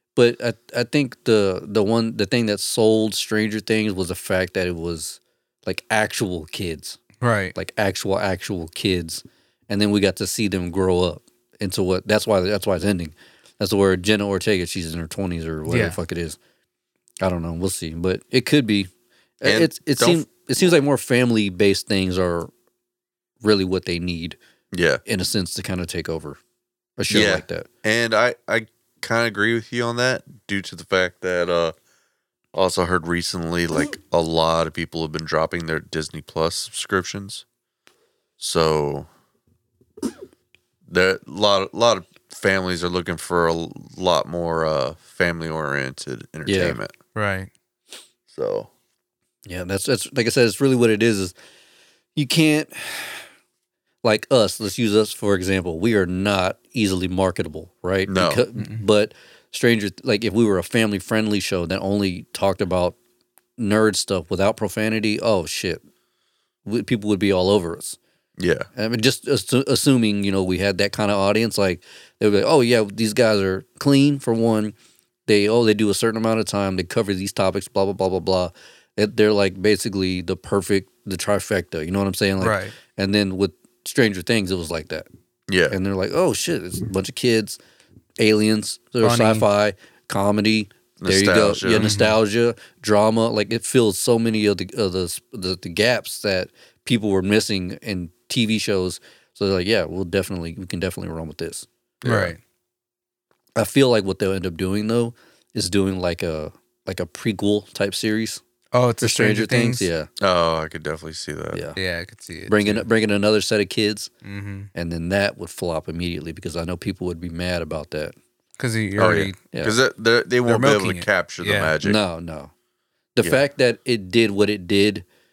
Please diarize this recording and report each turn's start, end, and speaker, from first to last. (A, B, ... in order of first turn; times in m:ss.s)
0:00.2-0:07.0 A
0:07.2-0:07.6 B
0:07.6-0:16.4 A
0:15.7-0:16.0 B
0:17.2-0:22.5 A
0:19.4-0:20.2 C
0:23.4-0:24.4 A
0:24.7-0:25.0 C
0:25.0-0:26.4 A
0:27.0-0:27.7 A
0:27.1-0:31.7 C
0:32.5-0:37.4 C
0:38.4-0:39.1 C
0:40.9-0:46.9 C
0:46.5-0:46.8 A
0:47.2-0:47.5 B
0:48.3-0:48.7 C
0:49.5-0:51.4 A
0:52.2-0:53.2 A
0:54.0-1:03.0 A
0:58.1-0:58.4 C
0:58.6-0:58.8 B
1:03.6-1:05.8 A
1:06.6-1:08.0 A
1:08.4-1:08.7 C
1:08.8-1:14.8 A
1:15.3-1:25.1 A
1:22.4-1:22.8 B
1:25.5-1:25.8 C
1:25.7-1:27.6 A
1:28.2-1:41.7 A
1:29.0-1:29.5 B
1:31.0-1:31.9 C
1:31.7-1:32.2 B
1:42.0-1:42.4 C
1:42.0-1:42.4 B
1:43.6-1:48.4 A
1:48.7-1:49.9 B
1:49.0-1:50.1 A
1:50.2-1:51.6 C
1:51.5-1:51.8 A
1:51.8-1:52.9 B
1:52.5-1:54.1 A
1:54.2-1:54.7 B
1:54.7-1:58.2 A
1:58.6-1:59.4 B
1:59.0-2:02.0 C
2:00.4-2:01.7 B
2:01.8-2:02.5 A
2:03.2-2:05.0 A